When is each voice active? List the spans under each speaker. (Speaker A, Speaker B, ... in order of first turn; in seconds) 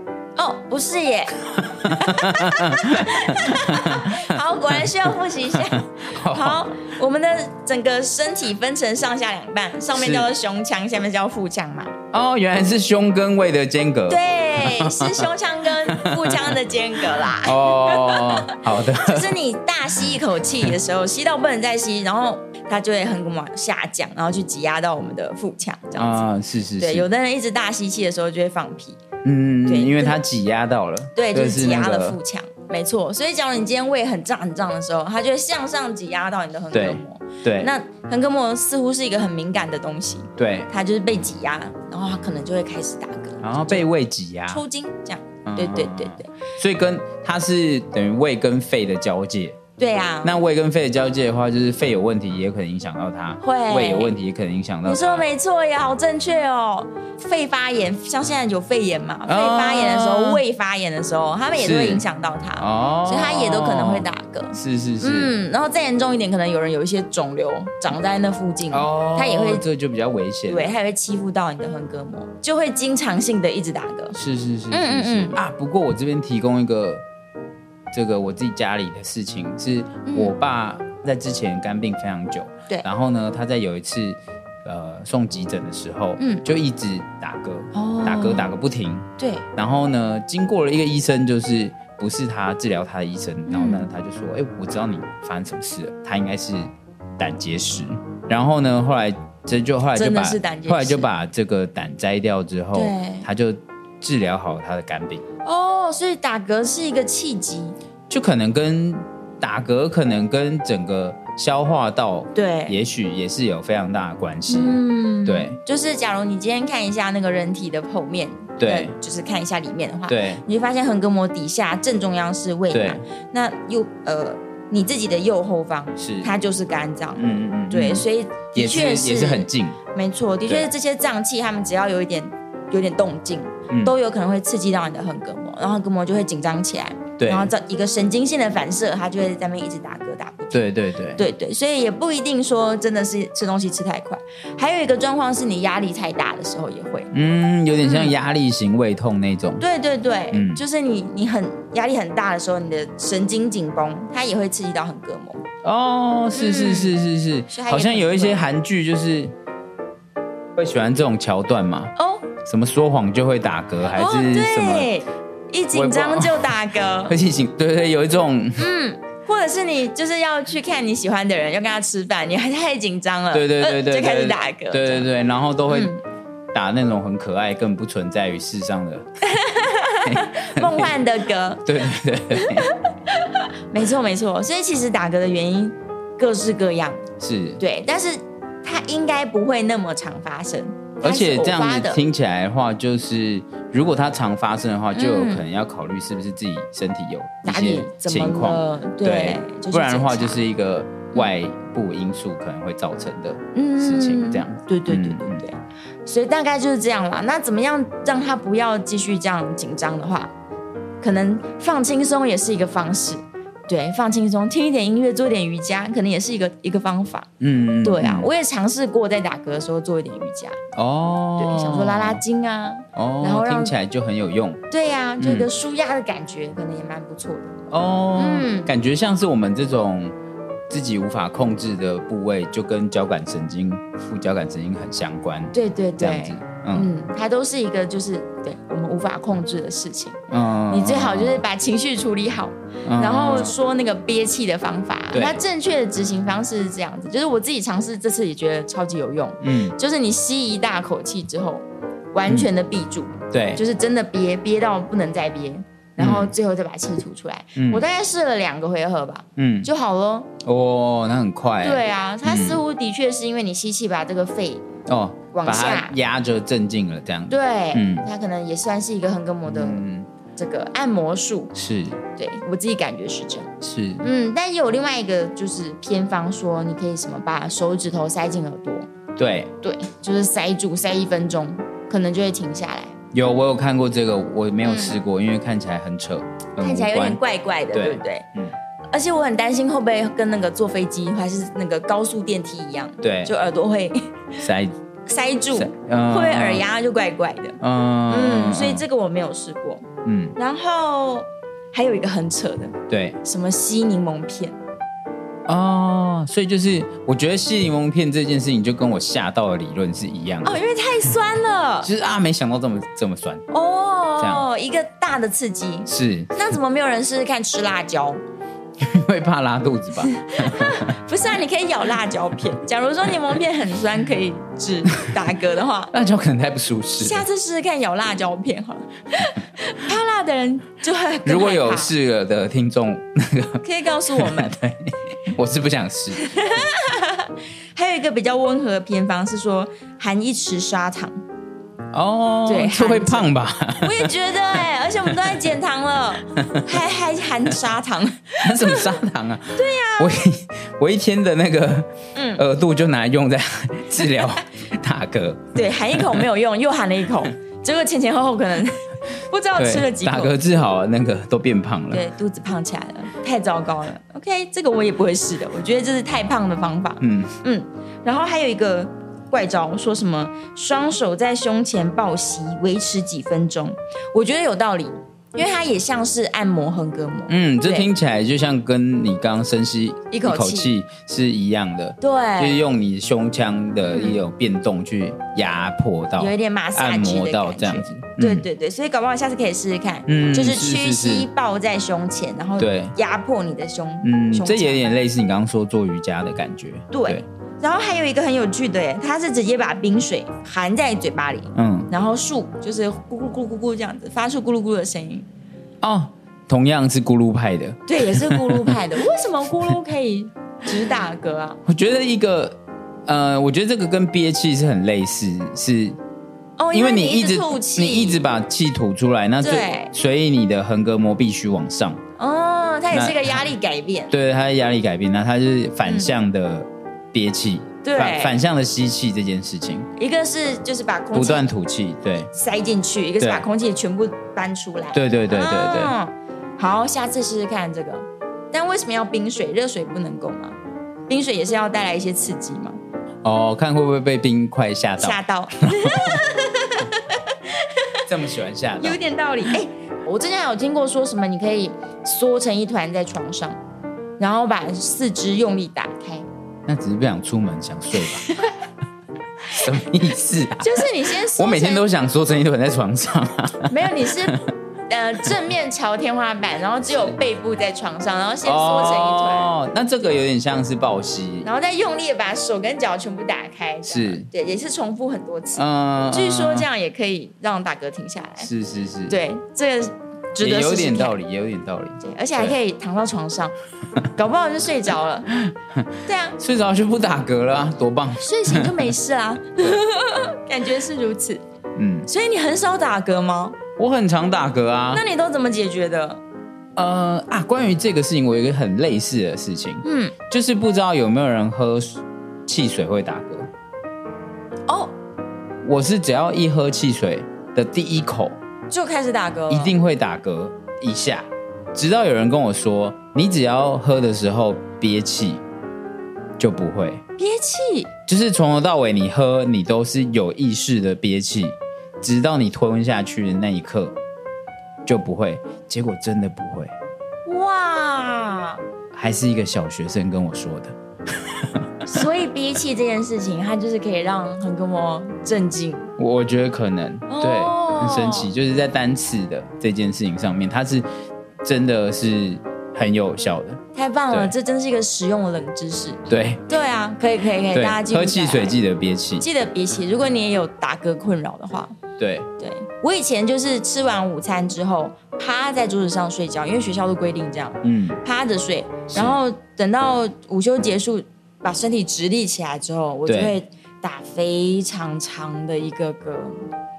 Speaker A: 0.4-11.9, 14.1-29.0, 29.6-30.2, 31.1-43.9, 44.5-46.3, 49.8-50.4, 53.4-54.1, 54.9-69.6, 70.5-74.2, 74.7-75.4, 80.1-80.3, 86.2-86.4, 87.7-88.5, 89.2-89.5, 93.5-93.9, 99.9-101.1, 102.7-103.3, 105.5-107.8, 112.3-112.8, 114.5-147.1, 147.8-148.2, 149.6-155.4, 156.3-157.0, 157.5-158.4, 162.0-162.3, 163.9-167.2, 168.6-175.1, 175.7-176.0, 179.2-181.7, 182.3-187.0, 187.6-192.0, 194.9-195.4, 197.4-200.4, 203.5-210.3, 211.0-217.3, 217.8-220.6, 221.4-223.8, 224.7-227.5, 228.2-228.7, 235.5-260.3, 261.6-264.7, 265.3-265.9, 267.3-271.5, 272.1-273.5, 274.0-278.9, 279.6-282.9, 284.6-285.0, 286.6-288.3, 288.9-294.1, 295.1-297.6, 298.1-299.9, 300.4-304.6, 310.4-311.9, 313.5-318.2, 320.0-325.9, 327.0-331.9, 333.6-334.6, 336.1-341.1, 342.5-349.0, 349.5-350.2, 352.1-352.4, 355.6-360.4, 361.9-377.9, 380.1-380.7, 382.0-382.6, 383.9-384.2, 386.2-394.9, 396.9-405.3, 407.9-411.6, 416.6-418.2, 419.4-419.9, 422.2-424.1, 425.8-426.1, 427.8-428.4, 430.0-431.5, 432.3-440.6, 441.1-442.8, 445.0-448.0, 448.8-453.6, 454.2-456.3, 458.0-458.6, 460.6-461.9, 463.7-469.5, 471.4-478.5, 479.1-481.2, 482.0-483.6, 484.1-485.3, 486.1-486.4, 488.2-491.4, 492.1-493.6, 494.9-496.2, 499.8-500.1, 504.7-504.9, 508.7-509.8, 517.2-517.9, 527.3-528.6, 531.9-535.9, 537.1-538.3, 543.7-548.6, 549.2-551.8, 552.4-566.4
Speaker B: 1.6-4.2, 6.0-6.7, 9.9-10.3, 12.1-15.3, 15.9-16.5, 17.4-19.3, 25.9-27.1, 29.2-32.2, 36.7-37.7, 40.4-40.7, 43.4-44.6, 45.5-49.6, 50.2-55.2, 59.3-60.4, 61.5-62.0, 62.6-65.3, 68.7-70.8, 74.2-77.0, 77.9-105.2, 108.1-115.6, 118.6-118.9, 120.1-120.4, 122.7-123.0, 126.0-126.3, 127.2-129.8, 133.7-133.9, 137.2-137.5, 140.5-141.2, 147.1-149.6, 150.3-150.6, 155.6-159.3, 160.6-164.9, 165.7-166.5, 167.1-168.7, 173.3-175.9, 176.5-179.1, 180.1-181.0, 181.7-182.7, 187.2-187.6, 191.0-205.4, 217.4-218.3, 220.8-222.2, 223.0-224.6, 225.2-225.5, 227.7-230.1, 230.7-236.9, 240.3-241.4, 242.8-243.6, 245.1-245.4, 249.4-249.8, 253.3-253.6, 256.0-256.3, 257.6-257.9, 259.4-259.7, 260.4-262.6, 264.9-268.1, 269.5-270.1, 271.6-272.0, 273.6-274.1, 279.2-279.5, 283.1-287.2, 287.7-288.5, 293.0-293.3, 294.4-294.8, 295.5-296.6, 297.6-298.9, 300.1-300.4, 302.9-303.2, 305.5-310.6, 311.8-313.5, 314.2-314.5, 315.9-316.3, 318.8-320.9, 325.9-327.2, 331.2-336.2, 341.9-344.1, 348.4-356.2, 359.6-362.0, 367.0-367.3, 377.3-388.4, 390.1-391.3, 392.6-392.9, 394.0-397.2, 401.6-401.9, 405.8-408.7, 411.7-416.0, 416.7-422.0, 422.9-423.5, 424.1-429.9, 431.1-432.3, 433.2-433.4, 434.9-435.9, 443.2-446.2, 448.1-449.0, 456.7-458.3, 459.5-464.5, 468.4-471.5, 473.9-474.3, 475.6-476.7, 478.4-479.2, 480.4-482.6, 485.4-485.9, 486.4-488.9, 491.8-492.1, 493.8-495.0, 496.8-503.5, 505.6-508.4, 509.5-515.4, 516.4-517.0, 518.1-524.0, 524.9-526.7, 528.9-531.6, 536.0-540.9, 541.4-544.3, 546.1-546.4, 547.5-549.3, 552.0-552.3, 557.6-558.0, 558.9-559.2, 563.1-563.4